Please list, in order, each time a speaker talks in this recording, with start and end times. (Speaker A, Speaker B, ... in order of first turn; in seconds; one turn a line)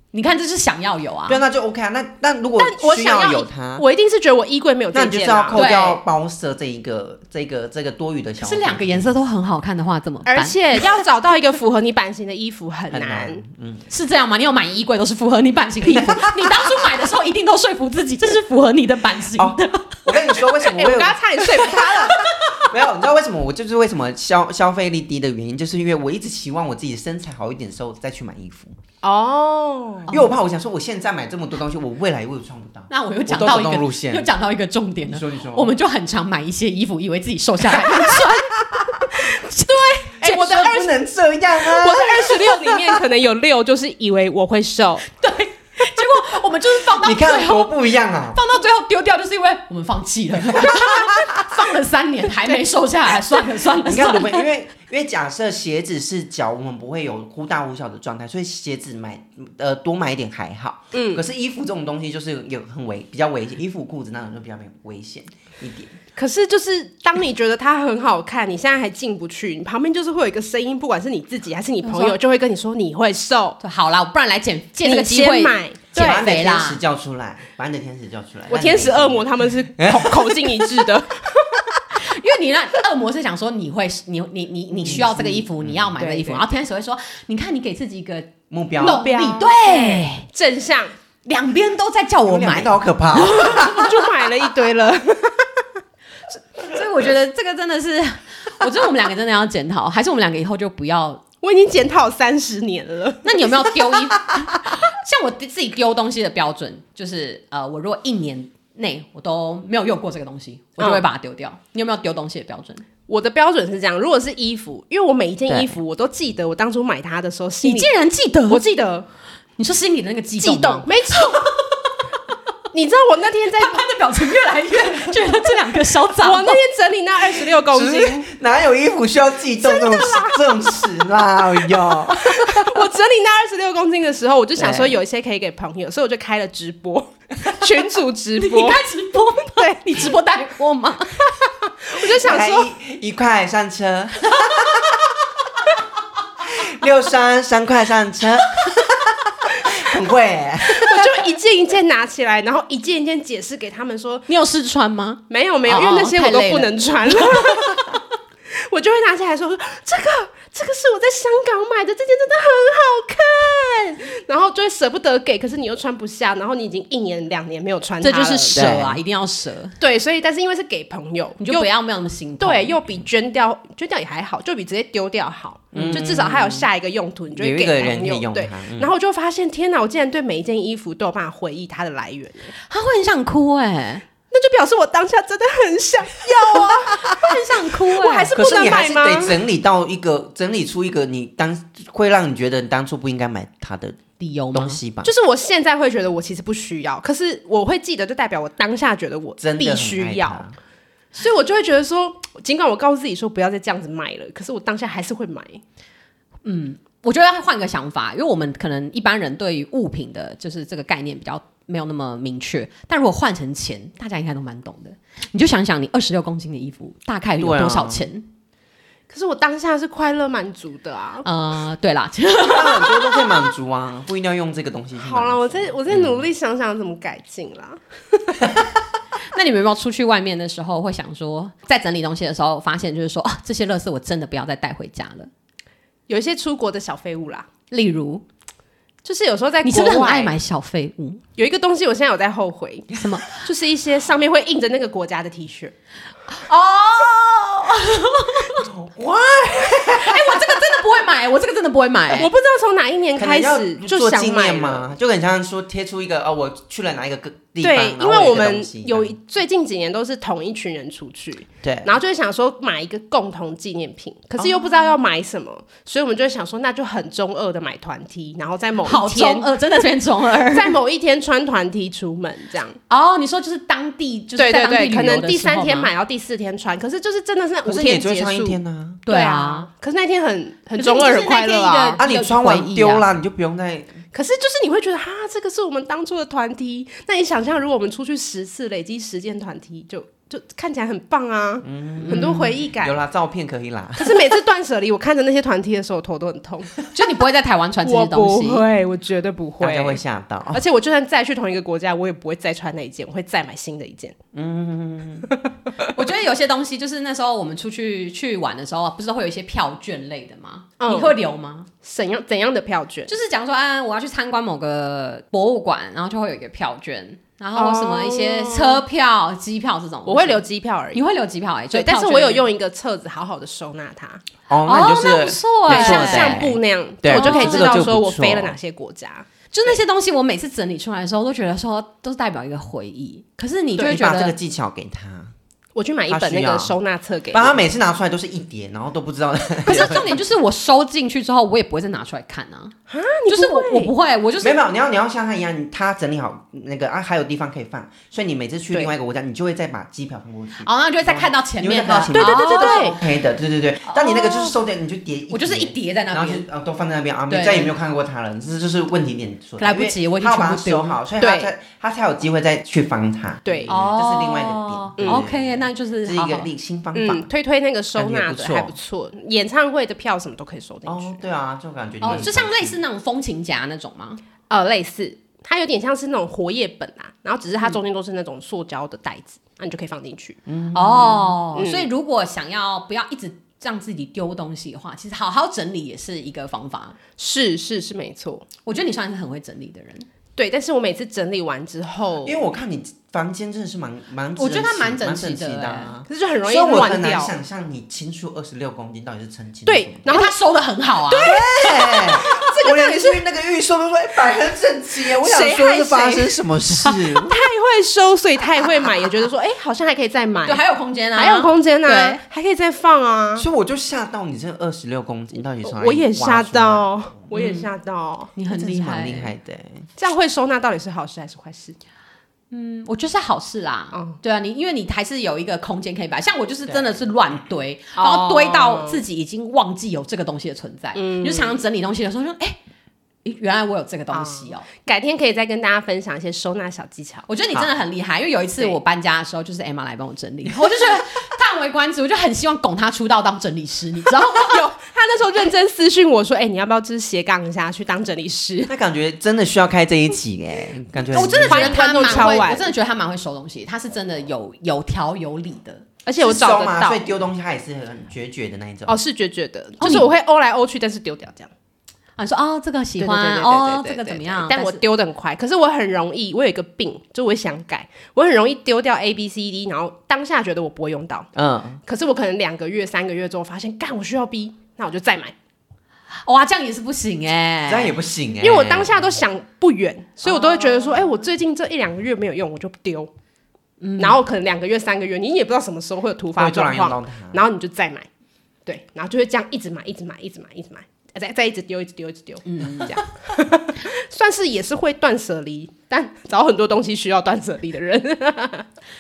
Speaker A: 0.1-1.4
Speaker B: 1.3-3.8
Speaker C: 2.6-5.7
Speaker B: 4.9-9.1
Speaker A: 5.5-6.0
Speaker A: 8.4-10.6
Speaker C: 10.2-13.4
Speaker B: 12.9-13.9
Speaker A: 13.9-20.0
Speaker B: 15.8-16.8
Speaker B: 19.3-28.8
Speaker C: 20.5-22.2
Speaker A: 22.2-22.6
Speaker C: 29.0-30.1
Speaker B: 30.1-34.3
Speaker A: 32.9-38.6
Speaker B: 35.1-35.7
Speaker B: 37.9-39.0
Speaker C: 39.2-41.0
Speaker B: 40.2-43.0
Speaker C: 41.6-45.0
Speaker A: 45.1-47.8
Speaker B: 46.9-48.4
Speaker A: 48.3-54.4
Speaker B: 50.5-51.4
Speaker B: 53.8-66.0
Speaker C: 60.9-61.2
Speaker C: 66.2-73.6
Speaker A: 71.8-72.2
Speaker A: 73.6-76.8
Speaker C: 74.8-76.3
Speaker B: 75.9-80.8
Speaker C: 78.5-81.5
Speaker A: 82.0-90.2
Speaker B: 84.8-86.0
Speaker C: 86.0-86.4
Speaker B: 88.5-89.0
Speaker C: 88.8-90.9
Speaker A: 91.2-93.8
Speaker B: 92.2-93.9
Speaker C: 93.5-95.6
Speaker A: 96.3-101.2
Speaker C: 101.4-103.9
Speaker A: 103.2-112.8
Speaker C: 110.8-111.0
Speaker C: 113.1-117.9
Speaker A: 117.6-118.6
Speaker C: 118.5-119.1
Speaker A: 119.6-121.6
Speaker C: 120.4-121.5
Speaker C: 122.7-123.8
Speaker A: 123.6-126.6
Speaker C: 126.2-128.2
Speaker B: 127.7-132.8
Speaker C: 129.6-130.5
Speaker C: 132.1-138.8
Speaker B: 134.6-135.0
Speaker A: 138.4-141.3
Speaker C: 139.5-140.0
Speaker C: 141.8-142.7
Speaker B: 142.1-145.0
Speaker B: 146.4-151.2
Speaker C: 150.7-154.3
Speaker A: 154.3-157.5
Speaker C: 155.3-158.0
Speaker C: 158.5-168.7
Speaker A: 168.0-169.7
Speaker B: 168.5-169.0
Speaker C: 169.8-171.7
Speaker A: 171.4-172.8
Speaker C: 172.4-182.5
Speaker A: 175.7-176.0
Speaker B: 175.7-176.7
Speaker B: 177.3-178.9
Speaker A: 182.7-184.0
Speaker C: 184.3-187.3
Speaker A: 187.2-188.3
Speaker C: 187.9-189.4
Speaker B: 188.3-195.1
Speaker A: 194.2-194.8
Speaker C: 195.0-200.4
Speaker B: 199.4-200.6
Speaker C: 201.1-205.6
Speaker A: 206.4-218.3
Speaker B: 217.4-218.0
Speaker C: 219.1-221.2
Speaker A: 221.2-223.3
Speaker B: 222.4-226.2
Speaker C: 225.0-227.8
Speaker A: 229.3-235.3
Speaker C: 236.1-237.5
Speaker A: 237.7-238.2
Speaker C: 239.0-240.3
Speaker A: 239.6-241.2
Speaker C: 241.4-245.7
Speaker A: 242.9-243.4
Speaker A: 246.3-248.7
Speaker B: 248.6-250.4
Speaker A: 249.8-252.3
Speaker C: 252.1-254.8
Speaker B: 253.1-259.1
Speaker C: 257.6-269.5
Speaker B: 261.6-261.9
Speaker A: 268.8-270.8
Speaker C: 270.5-272.8
Speaker A: 272.9-275.9
Speaker C: 274.4-282.0
Speaker B: 277.6-279.0
Speaker A: 279.1-279.7
Speaker A: 280.8-283.0
Speaker B: 282.0-284.0
Speaker C: 284.1-292.9
Speaker B: 291.6-294.2
Speaker A: 292.0-292.5
Speaker C: 294.0-296.8
Speaker A: 296.9-298.6
Speaker C: 297.8-300.0
Speaker B: 299.6-300.6
Speaker C: 300.5-304.1
Speaker B: 304.3-305.3
Speaker A: 305.9-311.7
Speaker C: 310.8-311.1
Speaker C: 311.8-313.1
Speaker A: 313.1-320.4
Speaker C: 317.6-318.8
Speaker C: 320.1-321.0
Speaker A: 320.9-322.4
Speaker C: 321.7-324.2
Speaker B: 324.5-328.6
Speaker A: 324.6-326.4
Speaker C: 325.7-329.3
Speaker A: 327.1-327.8
Speaker A: 329.5-334.3
Speaker B: 333.8-335.3
Speaker C: 335.7-337.6
Speaker B: 336.1-336.7
Speaker B: 337.3-340.2
Speaker A: 339.6-342.7
Speaker C: 342.9-343.9
Speaker A: 343.3-344.6
Speaker B: 344.4-367.3
Speaker A: 350.6-353.0
Speaker C: 352.1-353.0
Speaker A: 353.9-354.5
Speaker A: 355.3-356.4
Speaker A: 357.3-357.8
Speaker A: 359.6-361.0
Speaker C: 361.2-361.5
Speaker C: 363.4-363.7
Speaker A: 363.7-366.5
Speaker C: 365.0-365.2
Speaker C: 366.9-371.2
Speaker B: 367.9-368.8
Speaker B: 370.9-372.8
Speaker A: 372.0-374.2
Speaker C: 374.5-380.4
Speaker B: 380.4-381.4
Speaker A: 380.7-386.9
Speaker C: 381.5-381.9
Speaker C: 387.2-388.5
Speaker A: 388.6-390.1
Speaker C: 390.4-392.4
Speaker B: 392.2-400.1
Speaker A: 394.4-395.9
Speaker C: 396.1-397.3
Speaker C: 399.6-400.4
Speaker A: 400.1-401.4
Speaker C: 401.1-403.2
Speaker B: 401.2-407.4
Speaker C: 405.1-410.6
Speaker A: 410.4-412.2
Speaker C: 411.1-413.4
Speaker B: 413.4-417.0
Speaker C: 415.6-418.3
Speaker A: 417.3-417.7
Speaker A: 418.3-419.3
Speaker B: 418.5-419.9
Speaker C: 420.0-421.8
Speaker A: 422.5-432.6
Speaker C: 423.9-424.2
Speaker B: 426.7-427.0
Speaker C: 428.0-429.0
Speaker C: 430.9-431.6
Speaker A: 433.2-434.6
Speaker C: 434.1-437.3
Speaker A: 437.3-444.6
Speaker C: 444.4-448.7
Speaker B: 448.7-452.4
Speaker A: 451.1-455.8
Speaker C: 451.3-452.7
Speaker C: 456.0-457.0
Speaker B: 456.2-459.0
Speaker C: 458.9-461.5
Speaker A: 459.8-460.1
Speaker A: 462.2-464.8
Speaker C: 463.0-471.3
Speaker B: 471.3-471.8
Speaker C: 471.9-475.3
Speaker A: 476.2-477.9
Speaker B: 477.6-479.0
Speaker C: 478.4-483.1
Speaker A: 483.8-484.2
Speaker C: 484.0-488.1
Speaker B: 486.4-487.4
Speaker C: 488.6-498.6
Speaker A: 492.4-493.0